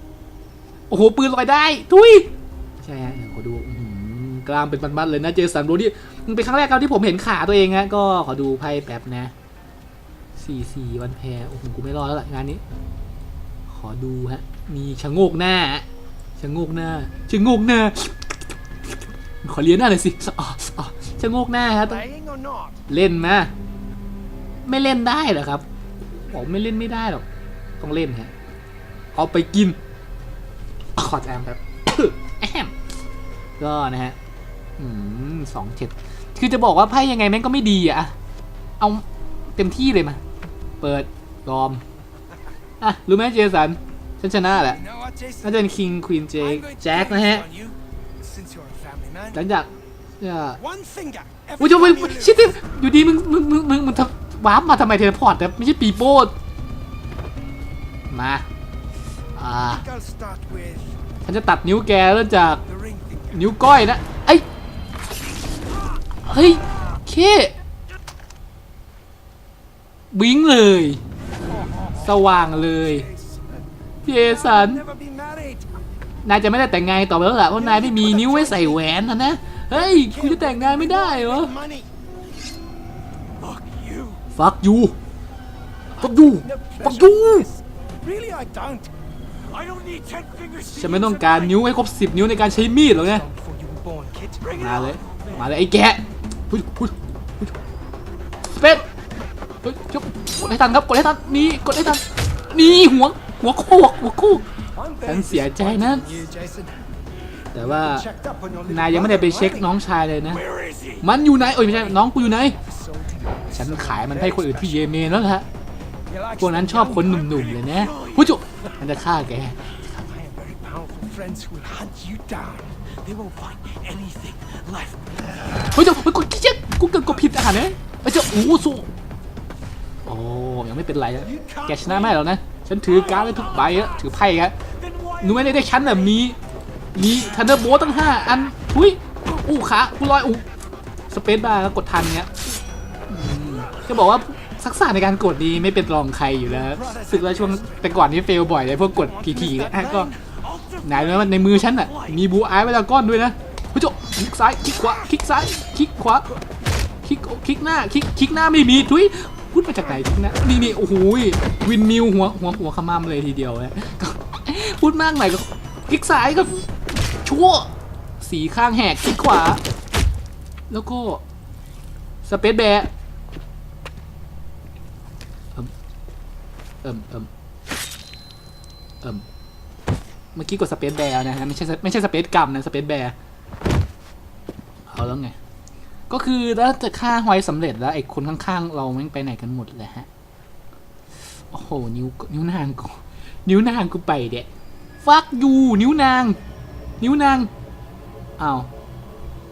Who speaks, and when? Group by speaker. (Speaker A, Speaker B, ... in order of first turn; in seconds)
Speaker A: 0.9-9.3, 10.4-12.6, 13.7-15.9, 16.4-22.0, 22.9-23.5, 24.6-27.2, 27.8-28.3, 29.1-29.8, 31.0-32.7, 33.6-34.2, 34.8-38.1, 38.8-40.2, 40.8-41.8, 42.8-44.8, 45.4-47.5, 49.3-50.6, 51.6-56.3, 58.1-58.5, 59.4-59.9, 61.3-62.6, 63.3-64.5, 66.2-67.5, 70.1-71.0, 72.0-73.1, 74.0-74.8, 76.2-81.5, 84.3-85.0, 86.0-87.5, 90.7-93.2, 94.5-97.5, 98.5-98.9, 99.6-104.5, 105.0-106.1, 107.5-108.1, 108.7-112.6, 113.5-115.5, 116.4-119.6, 125.7-128.9, 130.1-134.6, 135.2-136.4, 136.9-140.4, 141.1-142.4, 143.1-150.1, 150.8-156.3, 157.0-166.7, 167.2-169.6, 170.7-171.2, 172.2-172.9, 176.8-177.3, 180.3-183.2, 184.9-185.4, 186.1-190.1, 191.5-194.5, 195.0-196.4, 197.0-197.5, 198.4-198.7
Speaker B: 21.8-22.8, 44.6-45.6, 46.4-49.4, 50.6-52.5, 59.7-61.0, 62.7-63.5, 71.5-73.5, 74.3-75.7, 77.5-78.8, 79.7-81.9, 83.4-84.2, 86.3-88.9, 93.0-95.2, 104.7-106.8, 107.6-109.7, 110.4-111.1, 111.6-112.0, 112.6-115.1, 116.1-118.1, 119.8-125.5, 131.3-132.1, 146.6-147.9, 149.0-151.1
Speaker C: 83.6-84.1, 89.5-91.4